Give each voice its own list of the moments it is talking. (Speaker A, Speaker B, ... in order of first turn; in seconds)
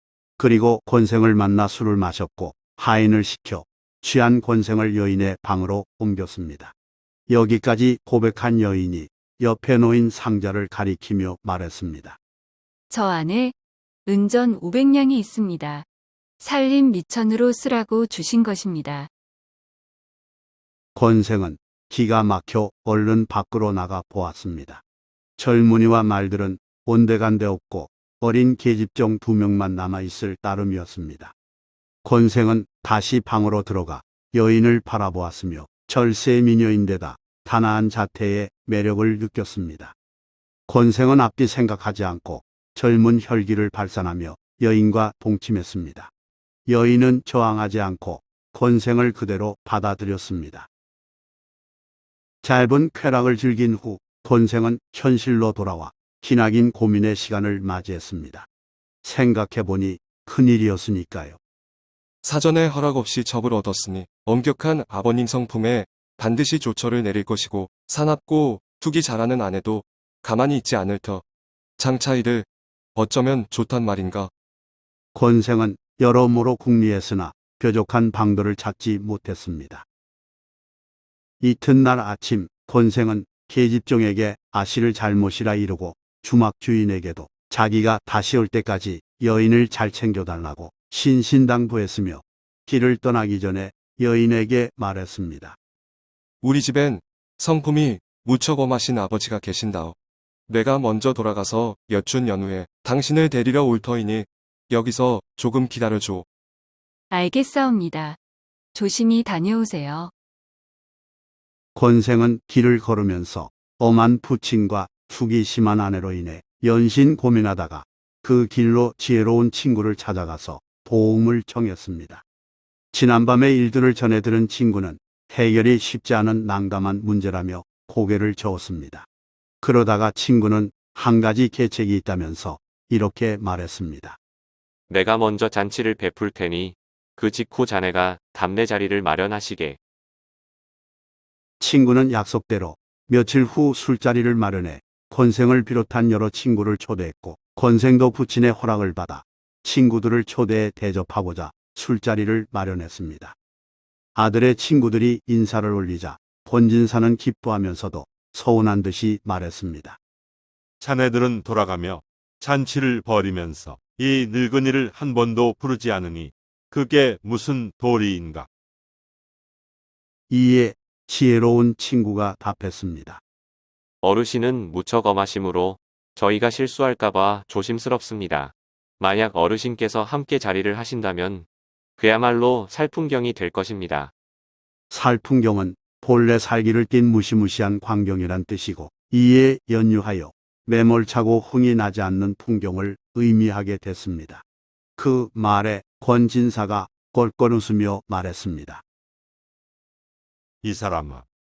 Speaker A: 0.4-6.7, 7.3-12.2, 20.9-24.8, 25.4-31.3, 32.0-40.0, 40.7-46.1, 46.7-50.7, 52.4-58.5, 59.0-61.4, 75.2-79.8, 81.4-95.6, 111.8-122.2, 122.9-129.1, 129.6-134.2, 141.6-153.4, 154.2-160.0, 170.3-173.2, 184.9-194.4, 195.0-198.8
Speaker B: 12.9-15.9, 16.4-19.1, 107.1-108.2, 108.7-110.1
Speaker C: 62.2-71.2, 71.8-74.3, 96.4-100.0, 100.5-106.3
Speaker D: 134.9-139.8, 174.0-181.5, 182.0-184.1
Speaker E: 160.8-168.5, 200.6-201.2